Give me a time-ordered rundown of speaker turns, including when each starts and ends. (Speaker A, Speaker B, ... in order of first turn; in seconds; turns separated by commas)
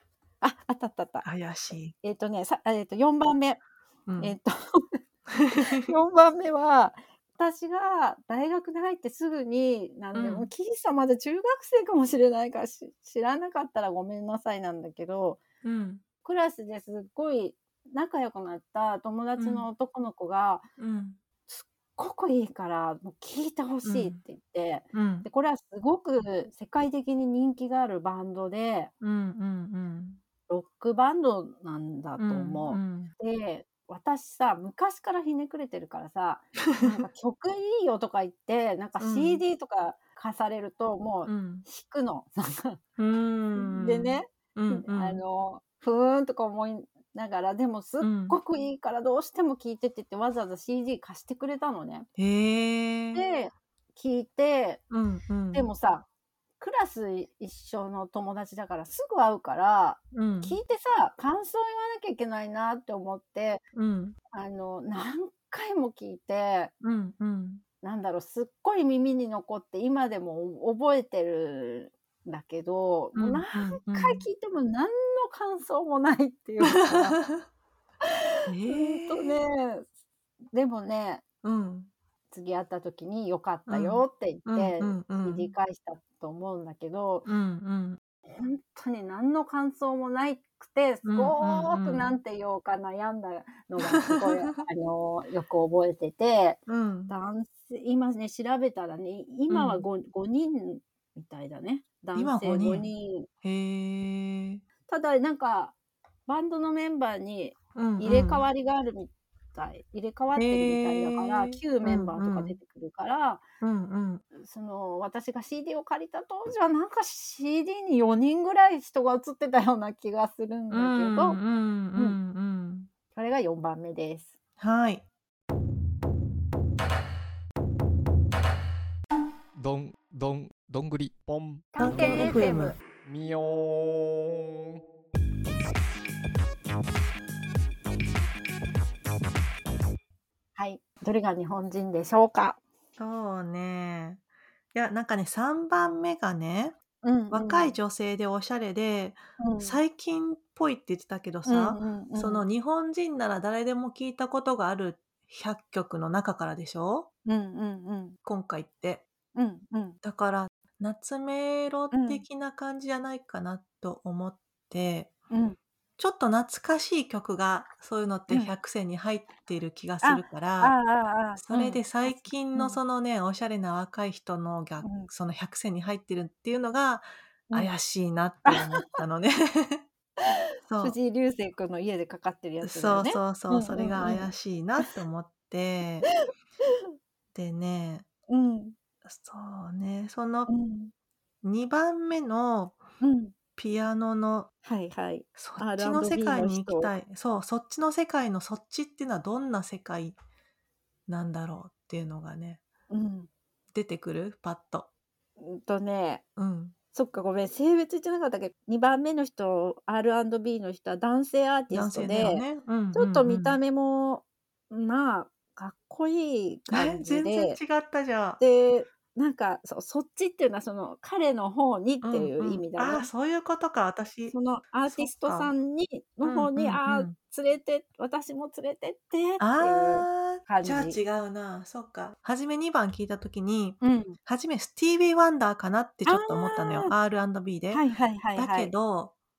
Speaker A: 0.4-1.3, Speaker B: 1.2-1.9, Speaker A: 2.0-3.6, Speaker B: 4.1-4.3, Speaker A: 4.2-5.0, Speaker B: 5.4-5.9, Speaker A: 5.7-15.4, Speaker B: 10.1-10.5, Speaker B: 15.6-16.0, Speaker A: 16.2-20.6, Speaker B: 19.4-19.6, Speaker B: 20.8-21.2, Speaker A: 21.5-28.9, Speaker B: 23.9-24.2, Speaker B: 24.9-25.3, Speaker B: 29.0-30.2, Speaker A: 30.5-42.8, Speaker B: 32.2-33.1, Speaker B: 39.0-39.4, Speaker B: 41.3-41.6, Speaker B: 43.0-45.2, Speaker A: 43.5-52.1, Speaker B: 48.0-48.4, Speaker B: 52.1-53.2, Speaker A: 53.1-54.8, Speaker B: 54.9-55.7, Speaker A: 55.5-56.0, Speaker A: 56.6-63.6, Speaker B: 60.1-60.6, Speaker B: 63.8-64.2, Speaker A: 64.3-66.7, Speaker B: 66.8-67.6, Speaker A: 67.8-77.2, Speaker B: 73.2-74.2, Speaker B: 76.6-77.5, Speaker B: 78.5-79.4, Speaker A: 78.7-79.8, Speaker A: 80.5-81.2, Speaker B: 81.4-81.9, Speaker A: 82.3-87.2, Speaker B: 83.7-85.5, Speaker B: 87.2-88.0, Speaker A: 88.3-103.3, Speaker B: 91.0-92.1, Speaker B: 93.8-94.6, Speaker B: 96.7-97.1, Speaker B: 99.5-99.8, Speaker B: 102.1-102.9, Speaker B: 103.4-104.6, Speaker A: 104.9-105.8, Speaker A: 106.3-113.4, Speaker B: 107.8-108.5, Speaker B: 110.3-112.6, Speaker B: 113.6-114.2, Speaker A: 114.3-121.4, Speaker B: 120.7-122.9, Speaker A: 123.1-124.3, Speaker B: 124.6-125.0, Speaker C: 129.6-132.4, Speaker A: 131.7-132.8, Speaker B: 131.8-132.8, Speaker C: 133.0-134.8, Speaker A: 140.6-142.6, Speaker B: 143.0-144.2, Speaker B: 144.7-146.8, Speaker A: 147.0-147.7, Speaker B: 147.3-157.1, Speaker A: 149.4-149.8, Speaker A: 151.5-152.5, Speaker A: 157.2-158.2, Speaker B: 158.2-159.0, Speaker A: 159.4-160.0, Speaker B: 160.0-165.1, Speaker A: 161.9-162.2, Speaker A: 165.3-165.6, Speaker B: 166.0-170.8, Speaker A: 170.0-172.8, Speaker B: 171.4-179.8, Speaker A: 174.8-175.1, Speaker A: 178.4-178.8, Speaker A: 180.2-184.3, Speaker B: 180.7-181.0, Speaker B: 182.6-186.1, Speaker A: 186.2-186.8, Speaker B: 187.3-188.1, Speaker A: 188.3-188.8, Speaker B: 189.0-190.5, Speaker A: 190.5-190.9, Speaker B: 191.4-192.8, Speaker A: 193.0-193.3, Speaker B: 193.6-194.5, Speaker A: 194.6-196.9, Speaker B: 195.4-200.2, Speaker B: 201.1-202.6, Speaker A: 202.9-203.3, Speaker B: 203.7-204.9, Speaker A: 205.4-206.2, Speaker B: 206.4-206.7, Speaker A: 206.9-217.6, Speaker B: 211.7-213.6, Speaker B: 216.7-218.4, Speaker A: 218.4-223.1, Speaker B: 222.0-224.3, Speaker A: 224.3-231.0, Speaker B: 224.9-225.5, Speaker B: 226.2-227.1, Speaker B: 229.4-237.8, Speaker A: 233.8-234.2, Speaker A: 236.1-236.9, Speaker A: 237.7-238.7, Speaker B: 238.4-239.1